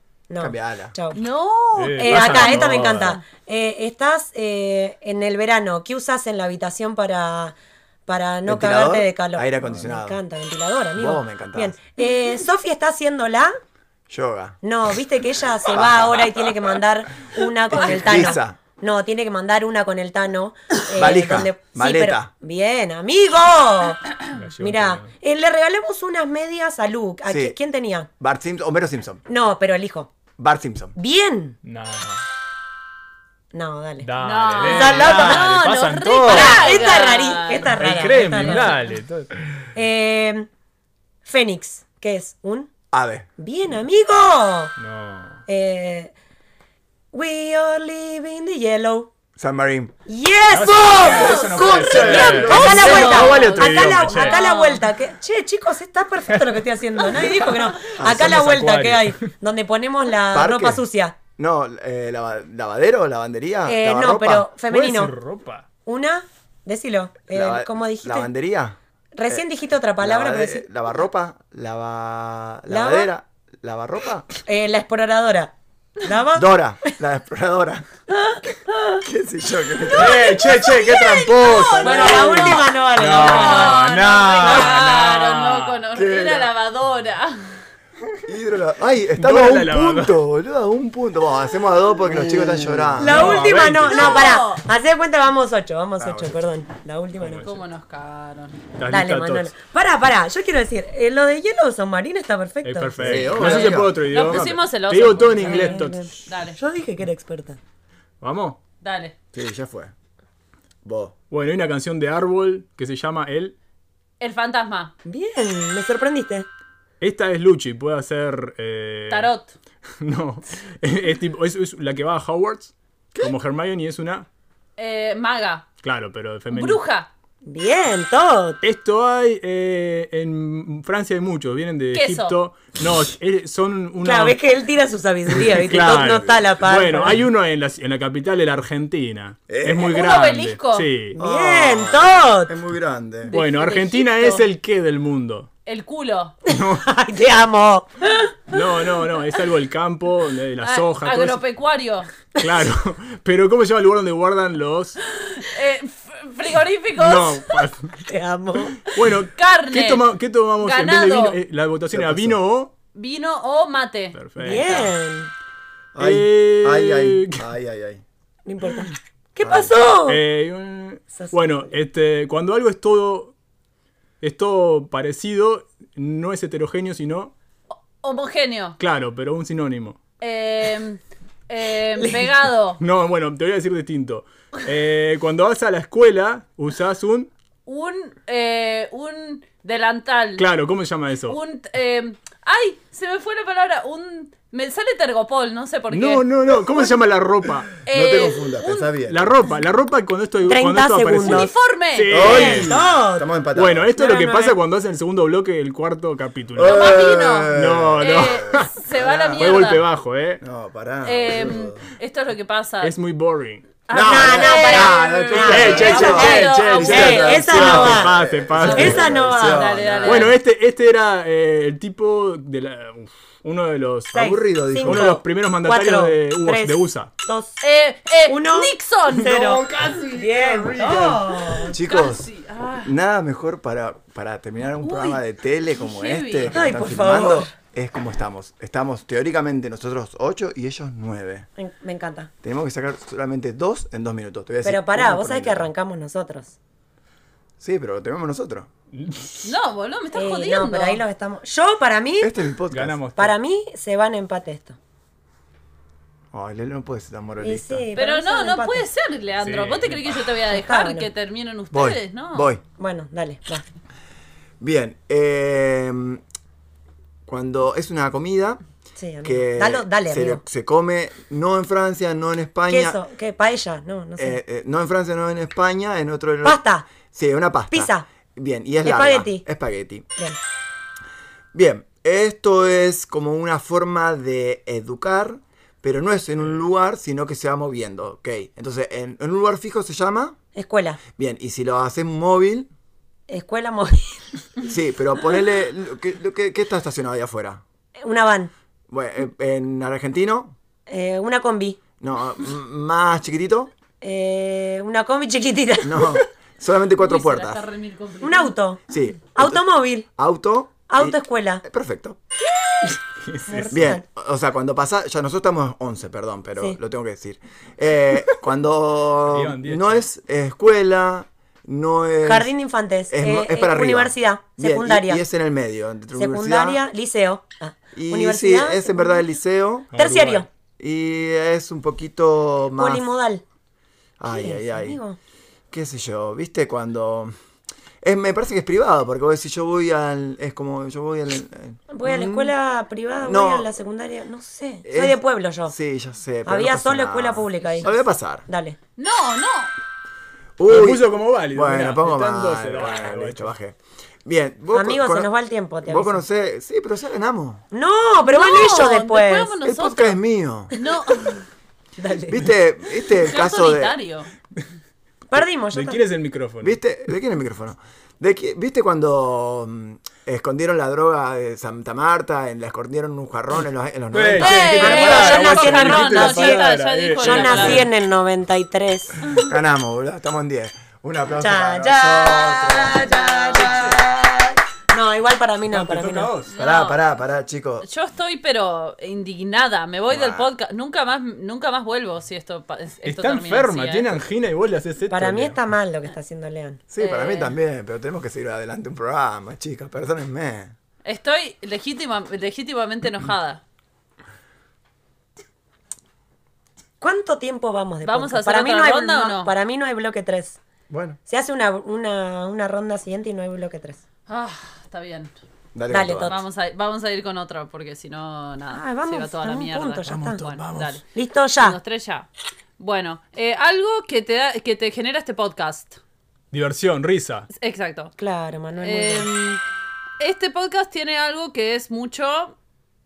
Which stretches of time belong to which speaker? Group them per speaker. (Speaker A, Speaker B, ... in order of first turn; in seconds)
Speaker A: 0.3-1.2, 2.0-7.5, 8.1-13.6, 14.6-28.1, 29.3-30.1, 30.9-31.6, 33.5-34.1, 34.6-35.5, 36.2-38.9, 39.7-40.5, 41.2-42.7, 43.4-44.7, 45.5-46.1, 47.1-49.1, 50.1-61.2, 63.7-65.1, 65.9-68.3, 69.1-70.6, 72.7-73.1, 74.5-76.5, 81.8-84.6, 93.0-97.6, 98.9-103.6, 105.4-107.6, 115.0-116.5, 127.5-128.6, 134.0-137.2, 141.1-142.5, 146.5-147.9, 158.1-158.8, 164.4-165.3, 168.4-170.2, 171.2-171.7, 200.5-201.5, 202.1-203.3, 204.0-204.6, 213.9-218.2, 218.7-219.8, 224.1-227.6, 228.3-231.7, 236.5-237.5, 241.6-242.3, 244.6-246.6, 250.1-252.3, 253.2-254.8, 257.4-258.9, 260.5-261.1, 262.8-263.6, 269.0-270.4, 272.7-274.4, 276.4-276.9, 277.7-278.1, 278.8-279.4, 290.6-291.0, 293.3-294.2, 298.0-298.5, 300.9-301.8, 304.0-306.2, 308.2-310.1, 310.9-311.6, 313.5-314.0, 322.2-325.2, 326.1-329.2, 329.9-330.5, 332.8-333.4, 334.3-335.2, 341.9-345.7, 346.5-347.9, 348.5-348.8, 354.7-356.2, 357.7-359.6, 362.0-362.5, 365.3-366.0, 374.8-376.7, 377.2-379.4, 381.4-386.3, 395.1-396.8, 407.0-410.6, 411.3-414.0, 415.9-416.4, 418.7-420.4, 421.1-421.8, 428.2-429.3
Speaker B: 0.4-0.9, 8.4-10.2, 10.9-11.8, 14.1-14.6, 15.7-16.8, 17.7-18.6, 20.9-22.3, 27.3-27.6, 28.2-29.2, 30.4-30.9, 42.9-43.3, 49.4-49.9, 51.7-53.5, 58.0-58.5, 60.3-60.8, 61.4-64.5, 67.3-68.8, 70.0-74.3, 76.3-77.9, 79.0-80.4, 86.0-86.5, 88.3-94.2, 96.0-96.4, 103.0-104.5, 109.3-109.9, 110.8-111.1, 135.8-136.3, 139.5-140.0, 141.2-143.3, 161.9-162.4, 165.9-168.0, 169.4-169.7, 197.9-199.3, 202.1-203.9, 206.6-209.8, 210.4-211.9, 213.9-220.3, 224.1-225.2, 230.8-231.1, 231.7-232.3, 232.8-241.5, 242.4-245.7, 247.6-248.7, 252.2-253.0, 256.3-257.9, 261.7-262.6, 264.6-266.2, 267.3-268.6, 269.2-273.0, 274.2-280.1, 281.5-290.4, 291.2-292.7, 294.6-297.6, 298.9-300.6, 302.0-303.7, 305.8-307.6, 308.9-312.2, 313.7-322.5, 323.1-326.8, 327.9-329.9, 330.8-333.1, 334.2-335.0, 335.7-337.3, 338.0-342.5, 343.2-343.7, 344.8-348.5, 350.6-355.3, 355.8-357.7, 359.6-360.7, 362.3-364.0, 366.6-375.2, 379.4-384.0, 386.5-387.9, 390.1-390.5, 396.9-400.8, 410.9-411.2, 415.7-416.3
Speaker C: 1.1-2.7, 34.2-38.8, 51.0-54.8, 80.0-87.6, 93.9-94.6, 97.4-98.6, 103.4-106.6, 108.8-109.1, 114.2-114.9, 119.1-119.5, 124.8-125.7, 126.5-127.1, 131.9-132.4, 139.9-140.9, 143.3-144.4, 145.7-146.3, 150.6-152.1, 155.3-157.6, 159.3-160.0, 160.6-161.4, 162.9-164.2, 178.0-178.8, 180.2-182.8, 187.7-190.4, 191.3-196.2, 197.8-198.9, 201.2-202.3, 206.6-209.8, 211.0-212.9, 213.9-217.6, 218.7-220.4, 227.6-229.3, 231.7-232.9, 234.8-236.6, 249.4-251.0, 257.9-262.5, 307.0-308.5, 349.0-349.7, 358.2-360.2, 360.7-361.4, 363.2-364.3, 374.4-377.9, 386.5-387.0, 387.8-394.2, 397.0-397.6, 401.0-403.6, 408.0-409.5, 414.3-415.3, 416.2-421.0, 421.6-426.0, 427.5-428.1, 428.8-429.6, 430.2-432.5
Speaker D: 1.8-3.2, 24.3-25.1, 31.6-32.2, 34.0-37.0, 37.6-39.3, 44.8-45.4, 50.5-54.4, 58.0-59.2, 64.7-65.7, 79.9-85.8, 89.2-90.2, 92.1-94.3, 97.2-97.5, 98.8-99.5, 102.6-106.1, 108.2-108.6, 111.3-113.5, 117.0-119.3, 120.0-124.3, 125.8-126.8, 128.6-134.4, 135.5-141.2, 143.3-145.5, 146.5-146.8, 148.5-151.4, 152.4-155.0, 157.0-157.9, 158.9-162.7, 164.1-164.9, 166.0-167.4, 170.1-173.3, 174.2-177.3, 178.8-180.0, 182.8-187.3, 190.4-191.4, 195.9-197.7, 199.1-202.8, 203.6-208.7, 209.4-210.4, 212.8-213.8, 215.4-219.1, 220.1-224.3, 224.8-227.1, 229.3-231.2, 248.9-249.5, 252.7-253.3, 259.4-260.2, 313.2-313.8, 319.3-320.1, 329.9-330.4, 350.7-353.5, 365.4-366.8, 374.1-377.9, 385.7-386.5, 393.0-395.6, 420.1-420.8, 426.5-427.5